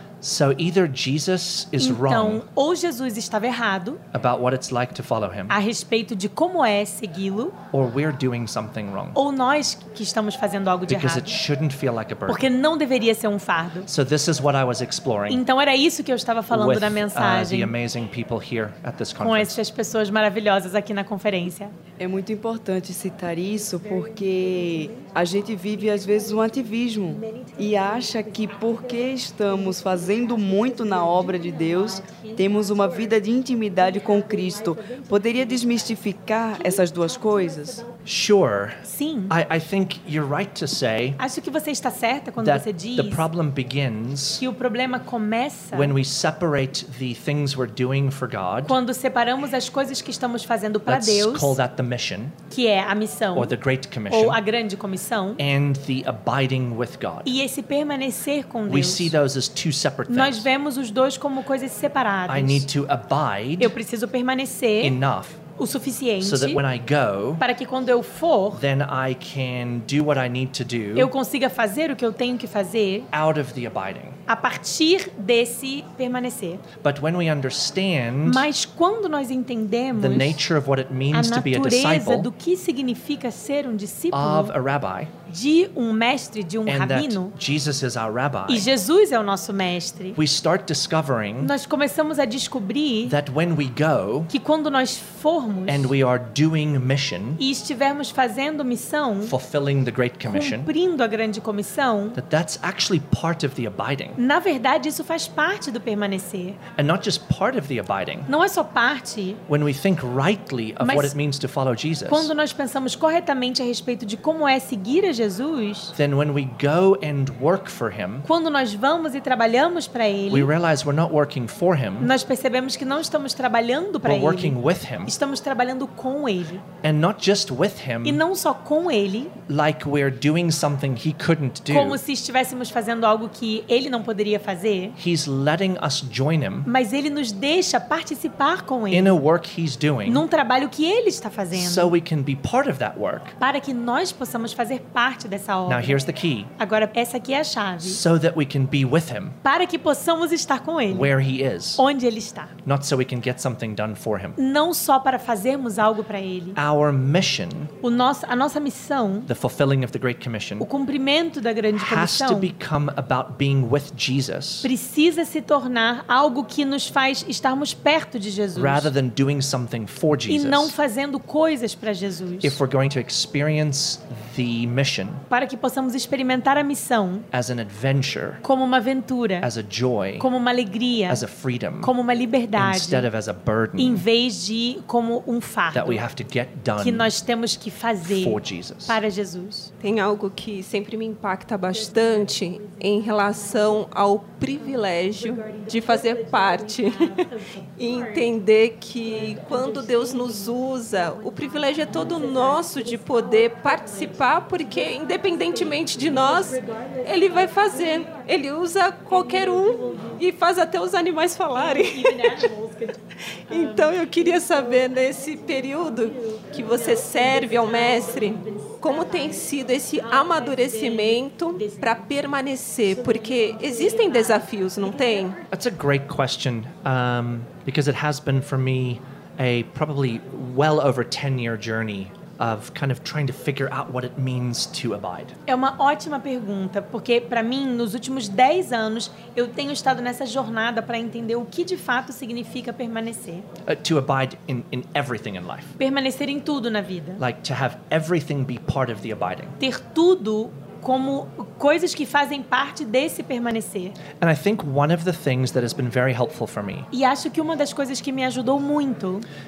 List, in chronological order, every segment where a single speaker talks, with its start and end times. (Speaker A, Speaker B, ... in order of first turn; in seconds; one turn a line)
Speaker A: 0.2-2.4
Speaker B: 1.8-4.0
Speaker A: 4.1-5.6
Speaker B: 5.5-7.6
Speaker A: 7.7-9.2
Speaker B: 9.2-11.4
Speaker A: 10.9-12.5
Speaker B: 12.3-13.9
Speaker A: 13.9-15.4
Speaker B: 15.3-17.7
Speaker A: 16.5-19.6
Speaker B: 19.2-21.7
Speaker C: 22.0-37.9
Speaker A: 38.0-41.2
Speaker B: 38.9-39.4
Speaker B: 41.2-43.3
Speaker A: 42.4-44.4
Speaker B: 44.4-46.0
Speaker A: 45.7-48.8
Speaker B: 48.6-51.6
Speaker A: 50.9-52.4
Speaker B: 52.5-53.6
Speaker A: 53.3-54.4
Speaker B: 54.1-55.4
Speaker A: 55.4-57.3
Speaker B: 57.2-59.1
Speaker A: 58.7-60.5
Speaker B: 60.1-62.7
Speaker A: 62.3-63.8
Speaker B: 63.6-65.0
Speaker A: 64.8-65.4
Speaker B: 65.6-66.6
Speaker A: 66.2-67.5
Speaker B: 67.4-68.6
Speaker A: 68.5-71.1
Speaker B: 71.0-73.1
Speaker A: 73.1-74.2
Speaker B: 74.3-76.6
Speaker A: 76.8-78.5
Speaker B: 78.2-80.4
Speaker A: 80.0-82.3
Speaker B: 81.1-84.5
Speaker A: 84.1-85.1
Speaker B: 85.3-87.3
Speaker A: 86.7-88.7
Speaker B: 88.5-90.2
Speaker A: 90.2-91.5
Speaker B: 91.4-93.2
Speaker A: 93.1-94.3
Speaker B: 94.3-95.9
Speaker A: 95.7-97.4
Speaker B: 97.4-99.3
Speaker A: 99.2-100.7
Speaker B: 100.2-102.2
Speaker A: 102.2-104.2
Speaker B: 104.2-106.6
Speaker A: 106.8-108.3
Speaker B: 108.3-109.4
Speaker A: 109.5-112.3
Speaker B: 110.8-111.2
Speaker B: 112.1-115.9
Speaker A: 115.9-118.3
Speaker B: 118.2-120.5
Speaker A: 120.3-122.1
Speaker B: 122.0-126.7
Speaker A: 124.0-125.2
Speaker A: 126.8-128.2
Speaker B: 128.0-129.4
Speaker A: 129.5-132.0
Speaker B: 131.7-135.0
Speaker A: 135.0-136.7
Speaker B: 136.7-139.2
Speaker A: 138.9-140.3
Speaker B: 140.1-141.9
Speaker A: 141.5-143.3
Speaker B: 143.4-146.0
Speaker A: 145.7-146.5
Speaker B: 146.6-148.0
Speaker A: 147.8-149.4
Speaker B: 149.4-151.1
Speaker A: 150.9-151.8
Speaker B: 151.8-152.5
Speaker A: 152.6-154.4
Speaker B: 154.4-156.6
Speaker A: 156.6-157.7
Speaker B: 157.8-159.3
Speaker A: 159.3-160.7
Speaker B: 160.6-162.5
Speaker A: 161.7-164.7
Speaker B: 164.6-168.9
Speaker A: 168.6-170.8
Speaker B: 170.3-172.6
Speaker A: 172.4-175.2
Speaker B: 175.3-177.3
Speaker A: 177.3-178.4
Speaker B: 178.4-179.5
Speaker A: 179.4-180.3
Speaker B: 180.2-181.2
Speaker A: 181.1-181.9
Speaker B: 181.8-183.1
Speaker A: 182.6-184.1
Speaker B: 183.8-186.0
Speaker A: 185.7-187.1
Speaker B: 186.8-189.7
Speaker A: 188.0-189.0
Speaker D: 189.8-212.5
Speaker B: 211.6-212.9
Speaker D: 213.4-225.4
Speaker A: 225.5-235.3
Speaker B: 235.5-243.5
Speaker A: 243.7-245.8
Speaker B: 245.8-247.2
Speaker A: 247.2-249.6
Speaker B: 249.6-254.0
Speaker A: 254.2-256.9
Speaker B: 256.9-259.3